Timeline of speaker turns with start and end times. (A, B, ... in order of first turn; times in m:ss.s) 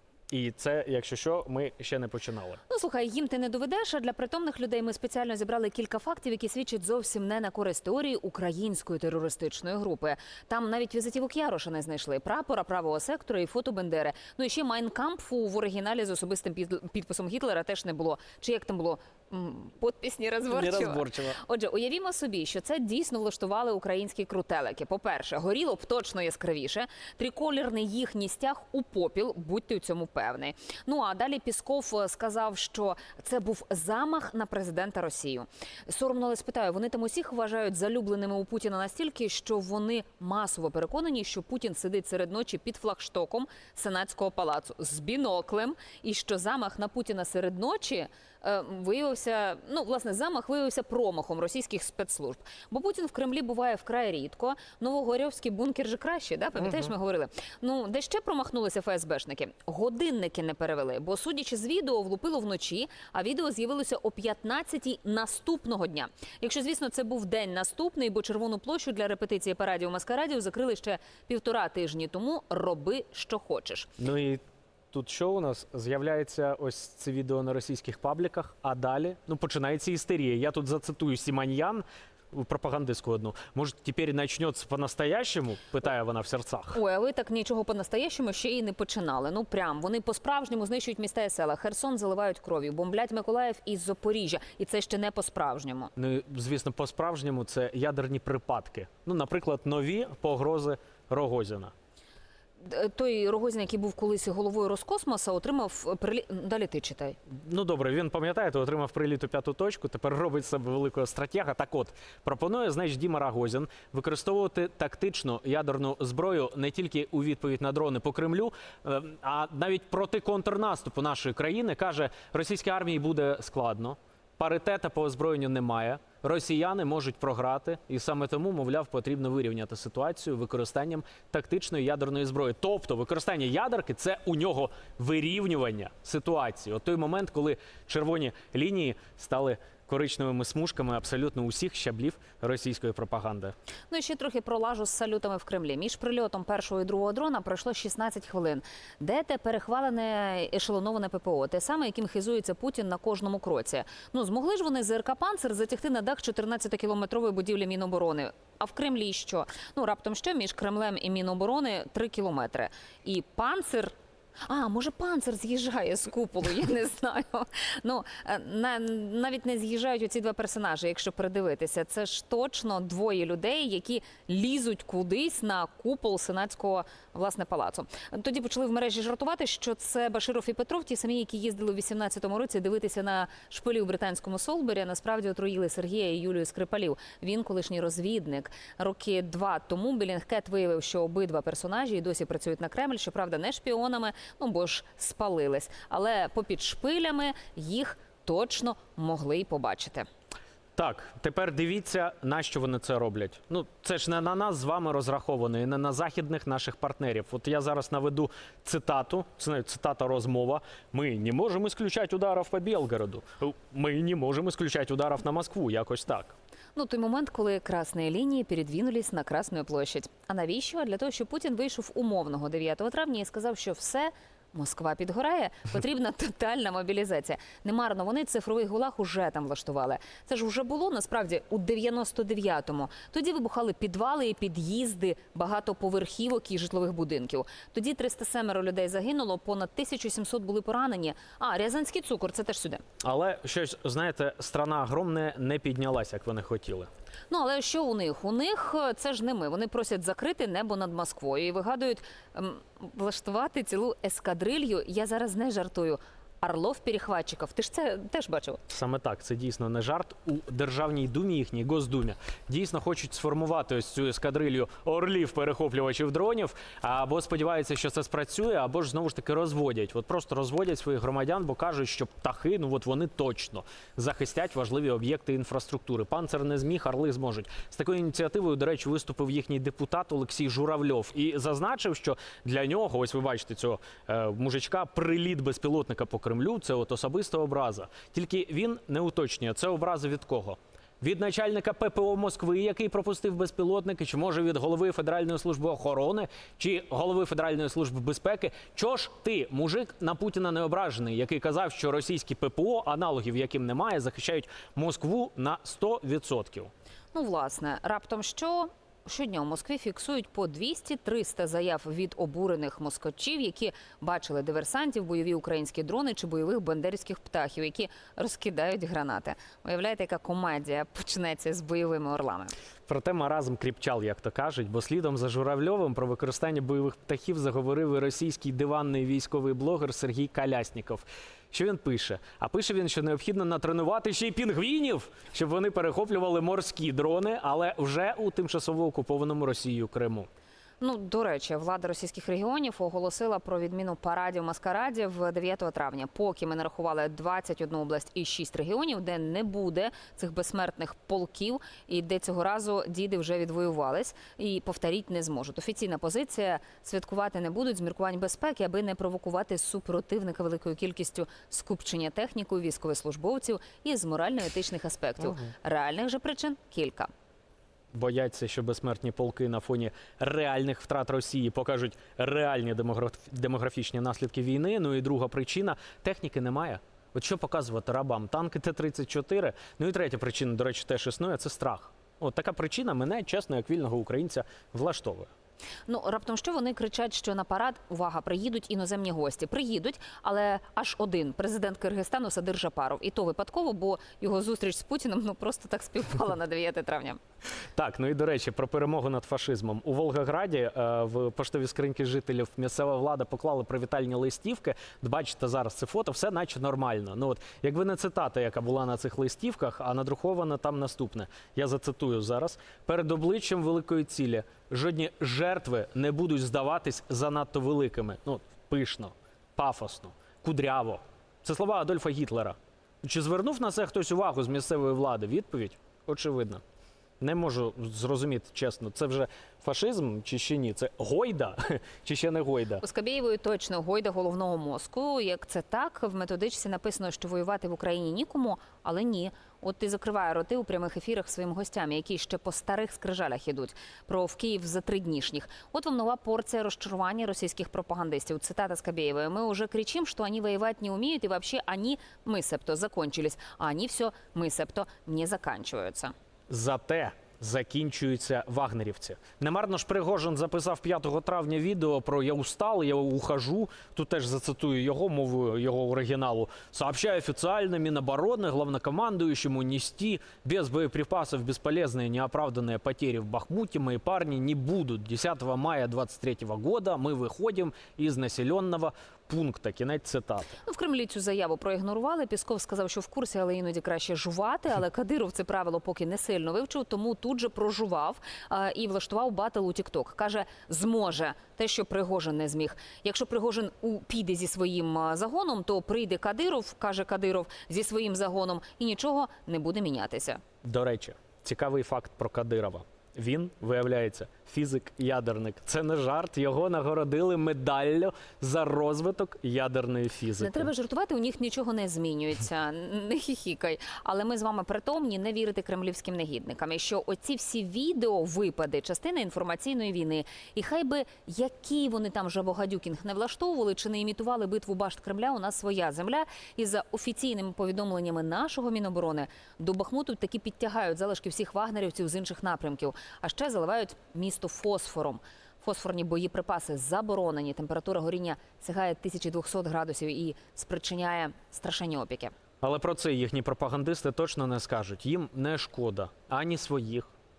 0:00.3-0:02.6 A
0:02.7-1:13.9 B
0:20.5-0:21.4 A
1:14.0-1:26.8 A
1:26.7-1:35.9 B
1:36.0-1:41.7 A
1:42.6-1:47.2 B
1:47.3-2:23.6 A
2:23.9-3:20.1 B
3:20.8-3:36.3 A
3:36.8-4:02.8 B
4:03.0-4:06.9 A
4:07.3-4:18.6 B
4:18.7-5:06.7 A
5:07.1-5:22.5 B
5:22.9-5:40.3 A
5:40.8-6:07.1 B
6:07.9-6:25.3 A
6:25.9-6:37.2 B
6:37.8-7:06.6 A
7:07.2-7:12.8 A
7:12.8-7:36.1 B
7:36.5-8:00.6 A
8:00.6-8:20.4 B
8:20.6-8:30.7 A
8:30.4-9:02.3 B
9:02.6-9:07.1 A